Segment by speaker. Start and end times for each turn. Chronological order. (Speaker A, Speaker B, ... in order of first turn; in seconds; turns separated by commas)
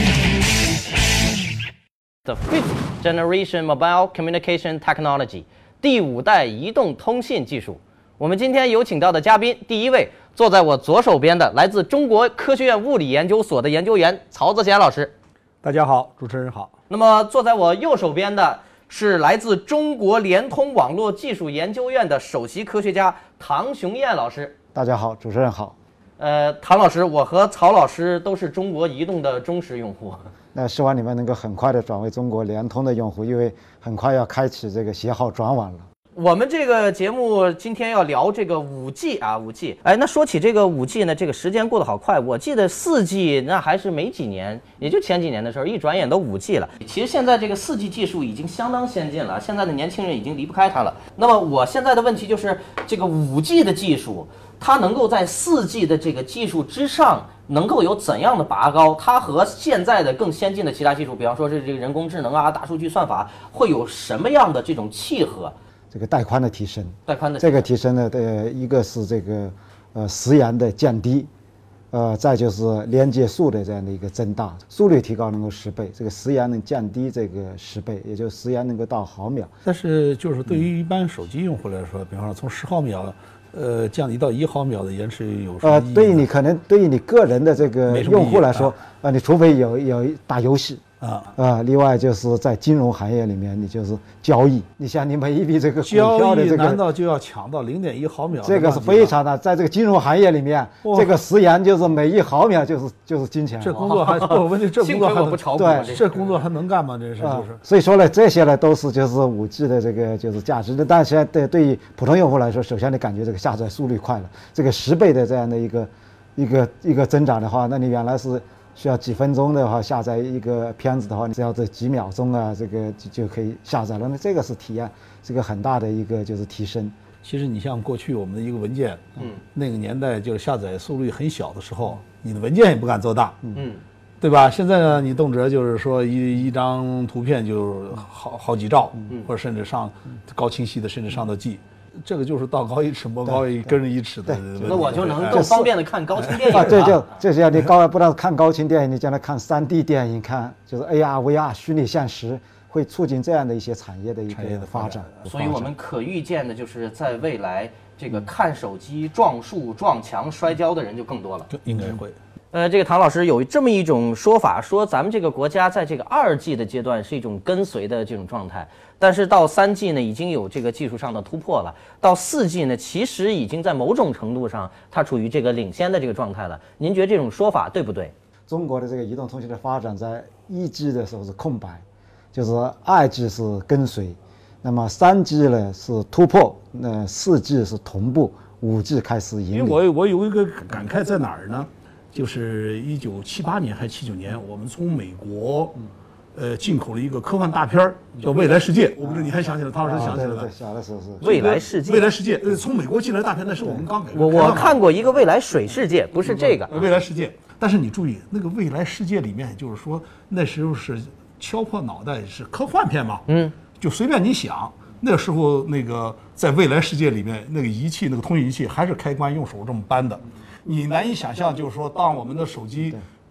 Speaker A: 2.2-15.1, Speaker B: 15.6-16.7, Speaker A: 16.9-24.5, Speaker C: 24.7-25.8, Speaker A: 26.2-30.3, Speaker C: 30.5-35.9, Speaker A: 36.2-65.5, Speaker C: 65.9-71.3, Speaker A: 67.1-67.7, Speaker C: 71.9-79.5, Speaker B: 79.7-86.2, Speaker C: 85.6-90.8, Speaker B: 87.9-88.8, Speaker B: 91.0-91.3, Speaker C: 91.3-96.8, Speaker B: 95.8-99.2, Speaker C: 98.4-104.2, Speaker B: 100.8-101.2, Speaker B: 103.6-107.6, Speaker A: 104.8-106.4, Speaker C: 105.5-106.0, Speaker C: 107.2-127.0, Speaker B: 127.2-133.4, Speaker A: 133.6-133.8, Speaker B: 134.2-145.5, Speaker C: 143.3-143.5, Speaker C: 144.3-145.7, Speaker A: 144.6-146.8, Speaker B: 146.2-147.0, Speaker C: 146.5-155.7, Speaker B: 154.3-155.1, Speaker A: 155.3-161.5, Speaker B: 161.5-162.2, Speaker A: 162.5-178.1, Speaker C: 178.5-189.8, Speaker B: 189.5-200.5, Speaker C: 199.8-201.3, Speaker A: 201.2-202.1, Speaker B: 201.2-204.8, Speaker A: 204.1-206.7, Speaker B: 206.3-213.3, Speaker A: 213.3-213.5, Speaker B: 213.8-223.0